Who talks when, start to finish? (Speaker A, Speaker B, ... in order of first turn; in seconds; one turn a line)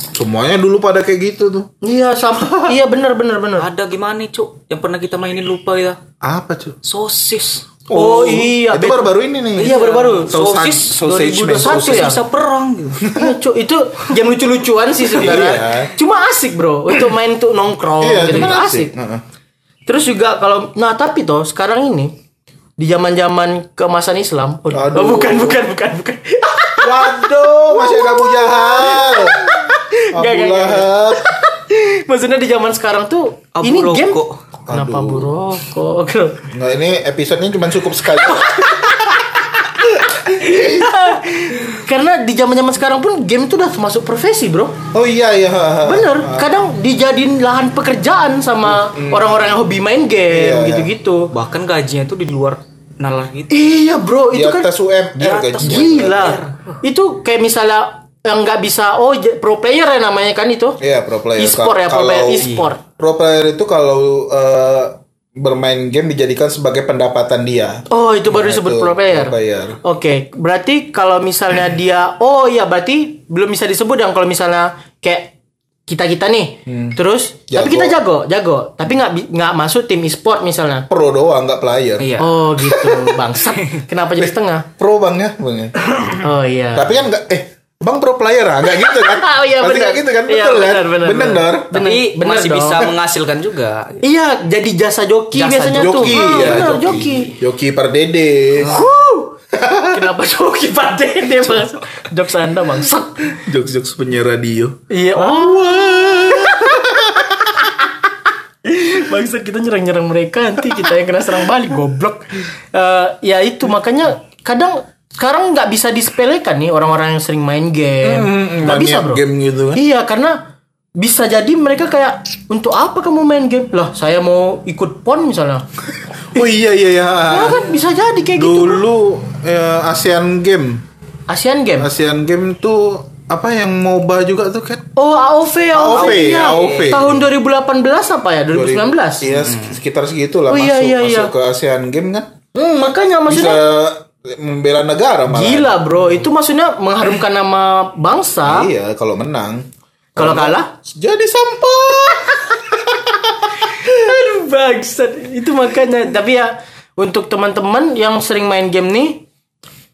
Speaker A: 0.1-1.7
Speaker B: 1.8-3.7
Speaker A: 2.4-2.8
Speaker C: 3.6-6.0
Speaker A: 6.2-6.8
Speaker C: 6.8-7.7
Speaker A: 7.9-12.1
Speaker B: 7.9-10.3
Speaker C: 9.6-13.0
Speaker B: 11.1-12.2
Speaker A: 13.0-13.4
Speaker B: 13.1-18.9
Speaker A: 15.1-15.9
Speaker A: 18.0-19.2
Speaker B: 19.9-22.1
Speaker B: 22.8-36.5
Speaker A: 24.7-25.6
Speaker A: 26.8-31.3
Speaker C: 33.5-34.4
Speaker A: 34.7-35.3
Speaker A: 36.5-39.3
Speaker B: 38.3-39.6
Speaker A: 39.9-41.0
Speaker B: 40.2-44.8
Speaker A: 44.9-46.5
Speaker B: 45.8-51.3
Speaker A: 48.6-49.7
Speaker A: 50.3-50.9
Speaker C: 51.3-53.5
Speaker B: 53.5-54.7
Speaker A: 54.3-56.4
Speaker C: 55.2-56.8
Speaker B: 55.6-60.8
Speaker A: 60.8-69.8
Speaker B: 61.4-62.8
Speaker C: 62.4-62.7
Speaker B: 67.9-75.3
Speaker B: 75.9-80.9
Speaker A: 76.7-77.0
Speaker A: 77.5-78.0
Speaker A: 80.9-83.2
Speaker C: 82.0-82.4
Speaker B: 82.2-84.7
Speaker A: 84.2-86.1
Speaker B: 86.1-87.0
Speaker A: 86.7-91.8
Speaker B: 88.7-92.9
Speaker C: 91.7-94.0
Speaker B: 94.0-97.3
Speaker C: 95.3-97.2
Speaker A: 95.7-98.8
Speaker B: 98.6-99.3
Speaker A: 99.5-100.1
Speaker B: 99.9-103.3
Speaker A: 103.3-107.6
Speaker B: 104.9-106.8
Speaker B: 108.6-119.2
Speaker A: 118.0-119.8
Speaker B: 119.7-120.4
Speaker B: 121.0-125.7
Speaker A: 126.3-127.7
Speaker B: 127.3-128.8
Speaker A: 128.3-130.8
Speaker B: 131.3-131.9
Speaker A: 131.8-134.9
Speaker B: 135.0-139.3
Speaker A: 135.7-137.2
Speaker C: 135.9-137.1
Speaker A: 138.5-142.3
Speaker C: 139.4-139.8
Speaker B: 140.5-141.3
Speaker B: 142.6-143.7
Speaker A: 143.3-145.8
Speaker B: 145.3-148.7
Speaker A: 148.4-153.5
Speaker B: 150.2-150.7
Speaker B: 153.8-159.2